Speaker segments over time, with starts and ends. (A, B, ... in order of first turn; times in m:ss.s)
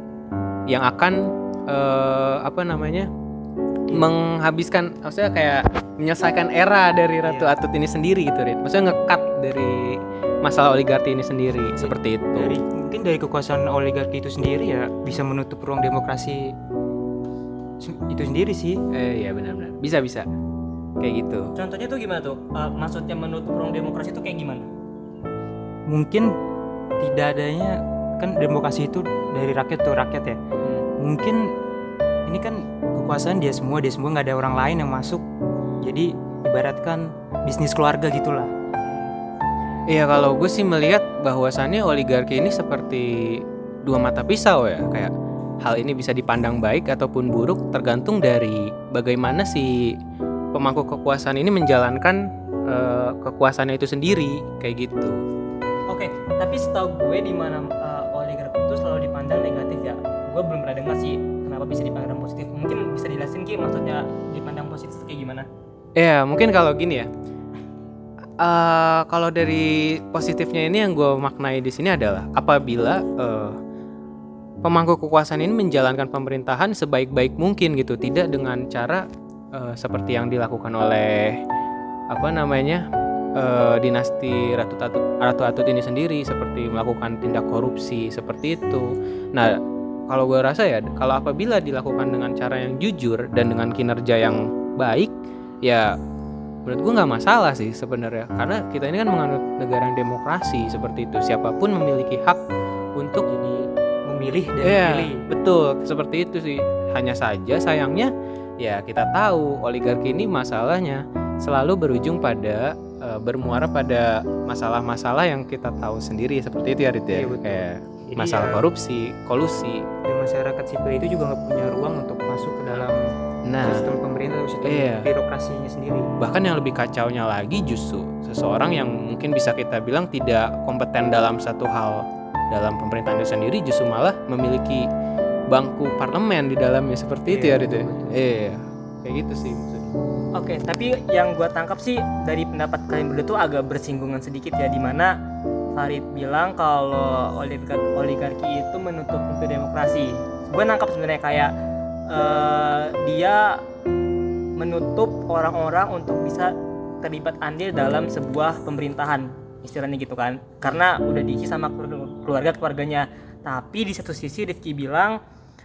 0:00.7-0:03.1 A
0:03.9-0:12.6 A
0:07.2-0:07.5 B
0:11.8-0:16.5 B
0:17.8-0:18.8 B
0:18.9-0:20.3 A
0:21.0-0:21.5 A
0:21.6-0:24.7 C
0:25.9-0:26.3 B
0:27.0-0:30.4 B
0:31.0-0:31.5 B
0:32.3-0:35.2 B
0:35.8-0:38.5 B
0:39.9-0:49.9 A
0:50.5-0:55.2 A
0:55.9-1:05.5 C
1:06.0-1:07.1 A
1:08.4-1:13.6 A
1:14.6-1:21.4 A
1:22.1-1:22.8 A
1:23.4-1:29.6 A
1:30.1-1:35.1 A
1:35.6-1:36.0 A
1:36.6-1:42.4 A
1:43.0-1:43.3 A
1:43.2-1:45.2 B
1:44.6-1:48.1 A
1:48.6-1:59.8 A
1:57.1-1:58.6 B
2:00.1-2:03.0 B
2:03.5-2:03.9 A
2:03.6-2:06.1 B
2:04.6-2:05.1 A
2:06.2-2:14.9 A
2:15.5-2:19.9 A
2:17.3-2:18.2 B
2:20.4-2:25.2 C
2:25.7-2:31.5 C
2:32.1-2:33.6 C
2:34.6-2:45.2 C